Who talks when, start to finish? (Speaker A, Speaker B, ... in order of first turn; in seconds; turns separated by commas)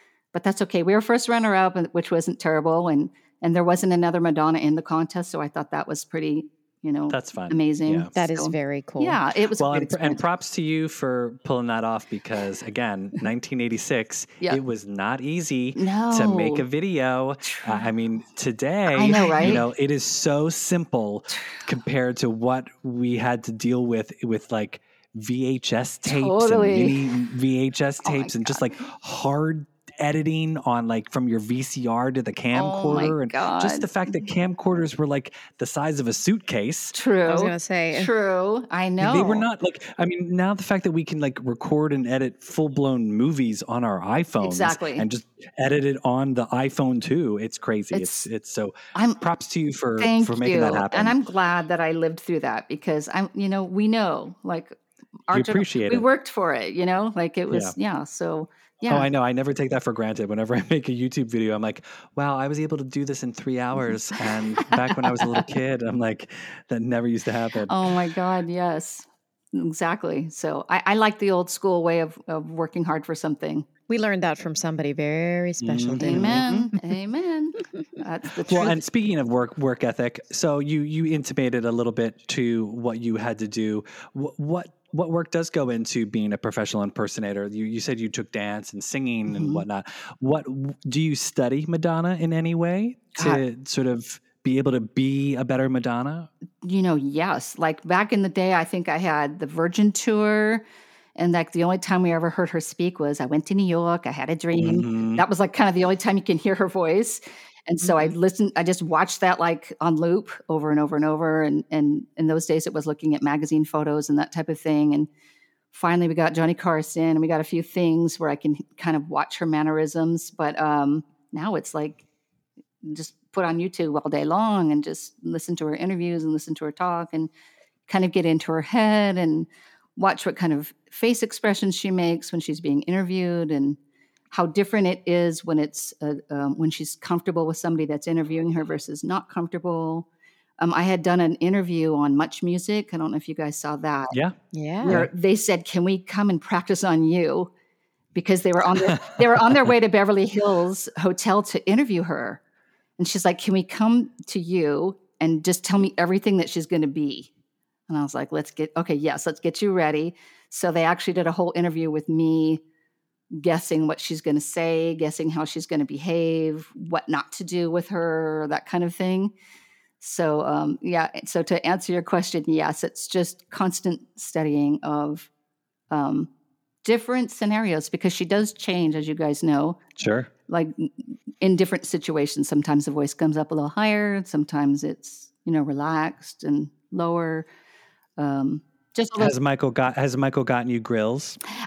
Speaker A: 0.3-10.2, Speaker B: 7.1-8.1, Speaker C: 8.1-9.2, Speaker B: 9.6-36.9, Speaker A: 15.8-16.6, Speaker A: 17.4-17.9, Speaker A: 18.9-19.6, Speaker A: 26.1-27.1, Speaker A: 28.0-28.7, Speaker A: 32.5-34.2, Speaker A: 36.9-39.5, Speaker C: 37.3-38.1, Speaker B: 39.0-51.2, Speaker A: 44.4-45.1, Speaker A: 47.9-48.3, Speaker A: 48.9-49.2, Speaker A: 50.0-54.7, Speaker A: 55.3-59.1, Speaker B: 55.3-56.0, Speaker B: 58.9-67.9, Speaker A: 64.6-65.3, Speaker A: 67.7-73.7, Speaker C: 73.9-76.6, Speaker B: 75.6-76.7, Speaker A: 76.0-78.8, Speaker B: 78.5-96.3, Speaker A: 89.3-89.6, Speaker A: 93.2-93.4, Speaker A: 96.6-100.6, Speaker A: 101.2-115.1, Speaker B: 104.5-105.2, Speaker C: 107.8-108.1, Speaker A: 115.7-122.0, Speaker A: 122.8-127.3, Speaker A: 127.9-133.8, Speaker A: 134.3-140.1, Speaker A: 140.6-144.2, Speaker B: 144.1-145.1, Speaker C: 144.5-145.0, Speaker A: 144.8-147.5, Speaker A: 148.1-152.4, Speaker B: 148.8-149.6, Speaker A: 153.0-157.3, Speaker A: 157.9-162.6, Speaker A: 163.3-169.3, Speaker A: 170.0-175.3, Speaker A: 175.9-176.3, Speaker A: 176.8-179.8, Speaker B: 180.0-180.3, Speaker A: 180.4-187.5, Speaker A: 188.2-189.3, Speaker B: 189.2-191.4